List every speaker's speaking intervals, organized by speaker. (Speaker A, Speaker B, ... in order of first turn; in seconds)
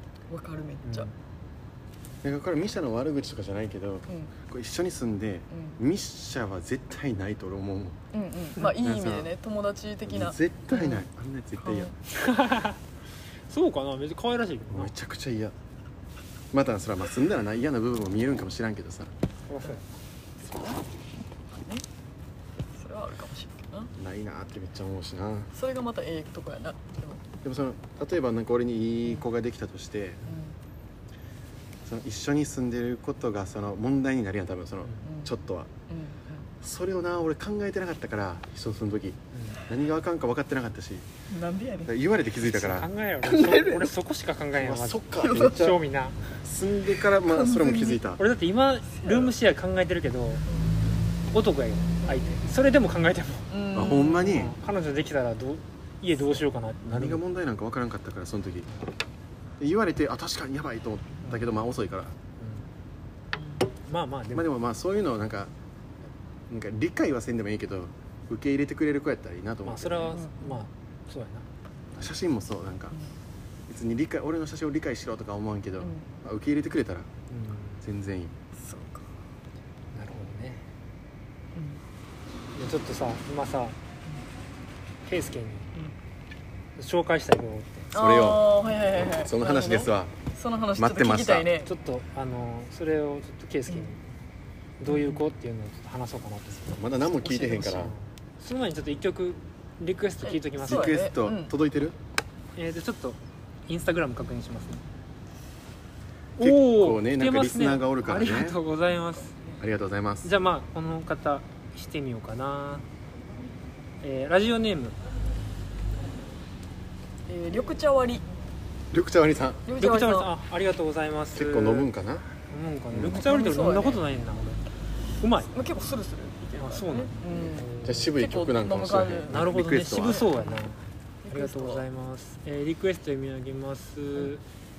Speaker A: 0.3-1.1, 4.1-4.3, 5.5-5.8, 8.1-11.0, 11.6-11.9, 20.4-20.9, 22.7-23.9, 25.5-27.2, 30.2-30.6, 35.0-35.4, 35.9-36.5, 41.3-41.9, 43.2-43.9, 45.2-45.7, 47.1-48.0, 48.9-49.3, 50.5-50.8, 52.0-52.5, 53.5-54.5, 63.4-63.6, 70.1-70.6, 75.8-76.1, 78.6-79.1, 81.5-81.8, 87.9-91.7, 94.8-95.3, 97.1-97.9, 100.2-101.5, 117.3-118.2, 119.7-120.3, 123.1-124.0, 125.4-129.4, 130.0-130.7, 131.2-131.8
Speaker B: 0.8-1.1, 12.1-12.8, 13.5-14.9, 19.5-19.8, 39.3-39.6, 42.4-46.2, 48.2-50.5, 51.2-53.5, 54.2-57.2, 62.4-62.6, 63.8-64.5, 69.7-71.5, 77.3-77.8, 79.9-80.6, 82.5-83.8, 85.0-85.7, 86.8-87.9, 91.6-94.0, 94.8-96.8, 97.8-100.9, 102.5-104.8, 106.4-109.3, 110.2-112.9, 114.0-115.0, 119.8-121.9, 122.4-124.6, 125.2-125.5, 126.6-128.1, 129.3-134.4
Speaker C: 2.2-8.0, 8.6-9.3, 10.1-11.9, 14.7-15.5, 16.5-19.1, 23.9-25.5, 27.4-30.2, 31.8-35.7, 36.6-41.1, 41.9-42.9, 44.6-45.8, 46.4-48.2, 53.7-54.5, 56.8-58.7, 59.6-62.2, 64.3-65.5, 66.5-70.1, 72.0-73.0, 73.7-77.1, 77.8-78.3, 87.9-90.1, 90.8-91.5, 96.7-97.9, 100.7-102.0, 106.4-108.6, 109.6-110.3, 118.9-119.7, 121.3-122.2, 122.9-123.2, 127.3-130.3